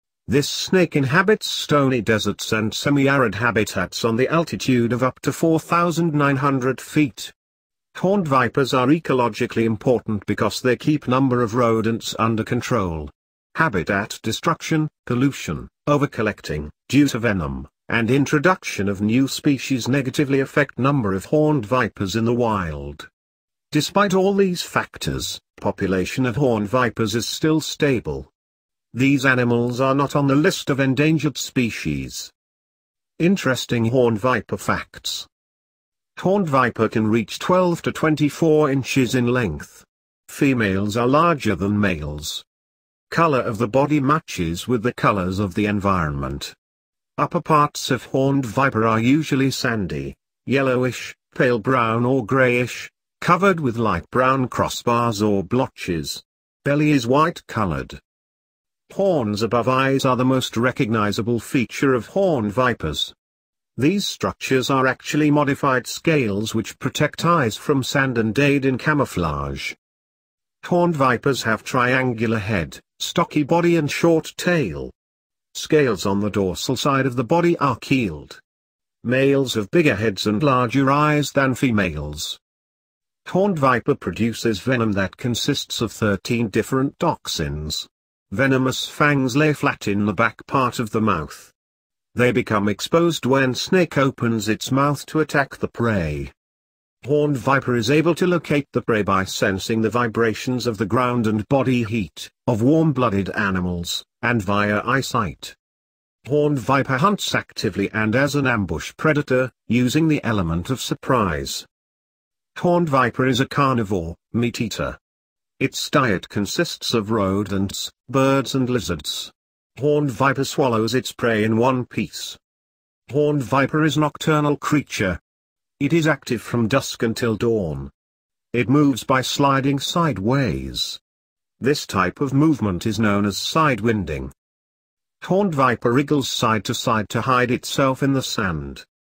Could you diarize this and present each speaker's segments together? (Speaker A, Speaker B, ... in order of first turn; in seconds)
Speaker A: 0.3-7.3, 7.9-23.1, 23.7-28.3, 28.9-32.3, 33.2-35.3, 36.2-42.4, 43.1-46.5, 47.2-58.0, 58.9-63.1, 63.8-69.8, 70.6-74.9, 75.5-78.4, 79.0-82.4, 83.2-91.5, 92.1-96.3, 97.0-105.5, 106.2-111.7, 112.5-115.0, 115.6-122.4, 123.1-125.2, 125.8-127.9, 128.5-131.0, 131.6-134.3, 135.2-138.8